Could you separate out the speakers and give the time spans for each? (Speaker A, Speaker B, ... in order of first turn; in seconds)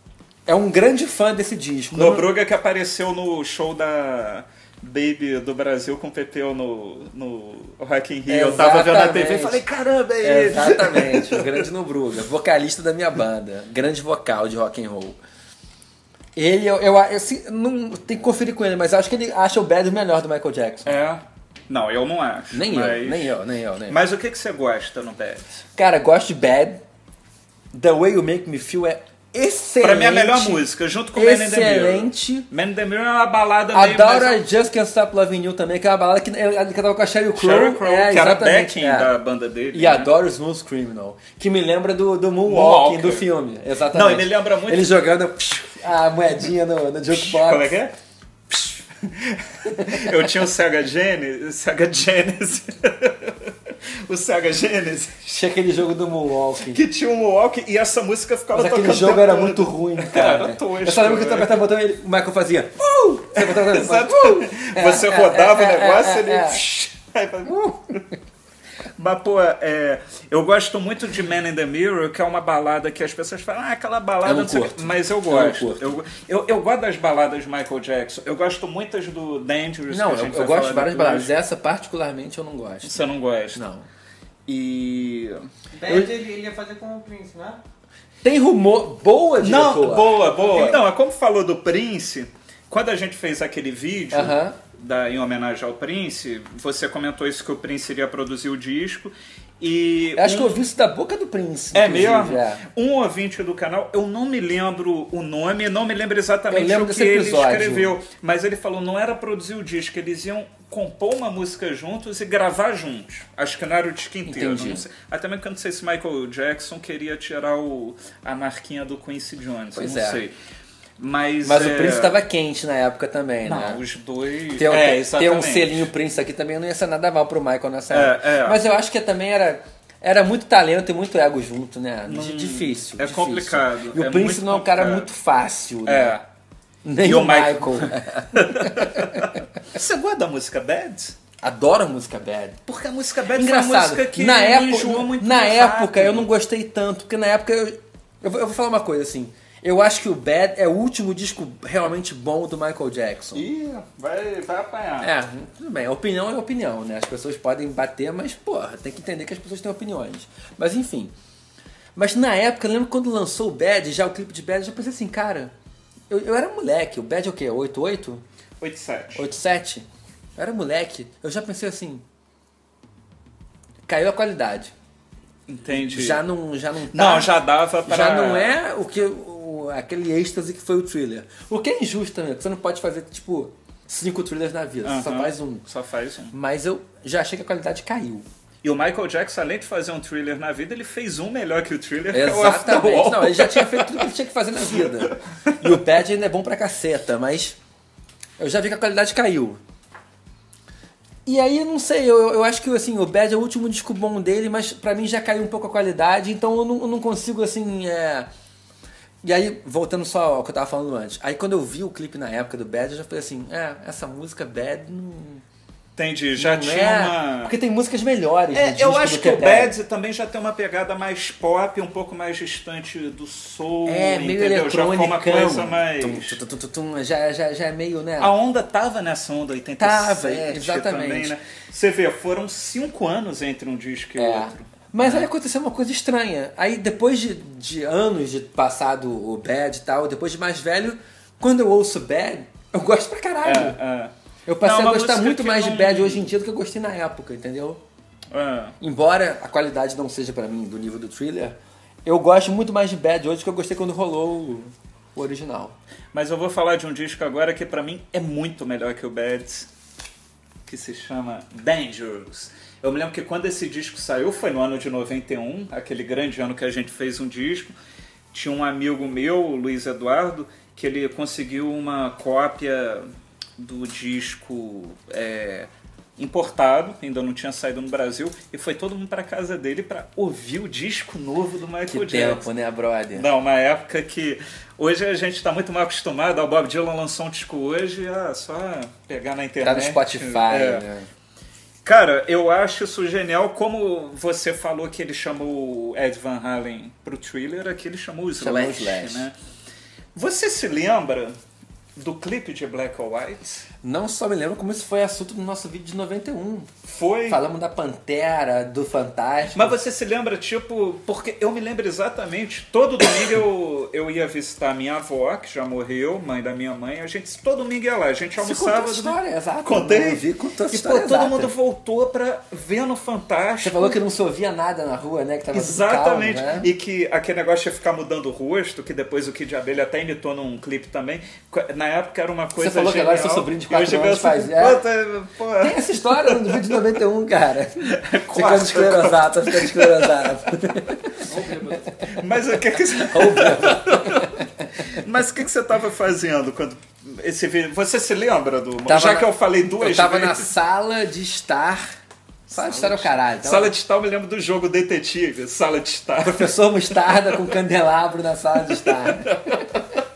Speaker A: 0.5-2.3, 8.3-9.6, 10.2-15.2, 16.4-20.9, 22.5-24.0, 25.8-26.8, 27.7-32.5, 33.7-39.1, 39.7-47.8, 49.7-50.2, 55.3-56.8, 58.5-66.6, 67.5-68.0, 74.2-76.0, 79.9-83.9, 85.9-86.1, 88.2-90.8, 94.1-94.6, 100.2-102.6, 106.5-107.9, 114.3-114.9, 119.8-120.2, 121.4-123.8, 124.6-136.1, 136.8-139.4, 141.4-142.6, 143.3-153.5, 155.0-161.1, 161.9-165.5, 166.1-168.2, 169.2-172.0, 173.9-174.7, 175.7-177.3, 177.8-185.6, 186.3-188.3, 192.1-197.6, 198.4-199.6, 201.2-208.3, 209.2-215.4, 216.4-219.8, 223.9-228.3, 229.8-231.3, 234.2-243.8, 244.5-247.8, 248.8-255.8, 281.9-283.3, 289.6-291.1, 298.4-299.3, 303.8-306.7, 307.3-309.8, 318.4-321.5, 323.6-326.7, 332.6-334.8, 335.6-341.8, 342.7-344.5, 348.9-351.8, 352.5-353.7, 356.2-359.8
Speaker B: 1.9-11.6, 20.9-23.4, 23.9-25.5, 29.8-34.4, 37.4-40.1, 42.5-43.3, 43.9-44.9, 47.1-47.9, 48.5-55.4, 56.7-61.6, 63.4-68.0, 69.0-81.3, 82.8-83.6, 84.5-85.5, 89.4-100.6, 101.7-120.3, 121.0-122.2, 123.4-125.9, 127.9-128.6, 132.1-135.1, 135.8-136.2, 137.0-141.2, 142.7-146.3, 153.3-155.1, 168.6-169.3, 175.5-176.2, 176.9-178.6, 184.8-186.3, 188.6-194.1, 194.7-195.5, 216.0-217.6, 218.5-226.4, 228.2-235.3, 243.4-246.3, 248.3-248.8, 256.1-259.7, 260.6-267.7, 268.3-273.1, 273.6-282.5, 283.1-290.9, 291.8-299.4, 300.1-301.4, 302.0-303.6, 306.9-307.4, 309.5-324.0, 325.5-336.7, 337.9-340.2, 342.1-350.5, 352.5-357.3, 358.8-359.8
Speaker C: 85.8-87.6, 341.3-341.9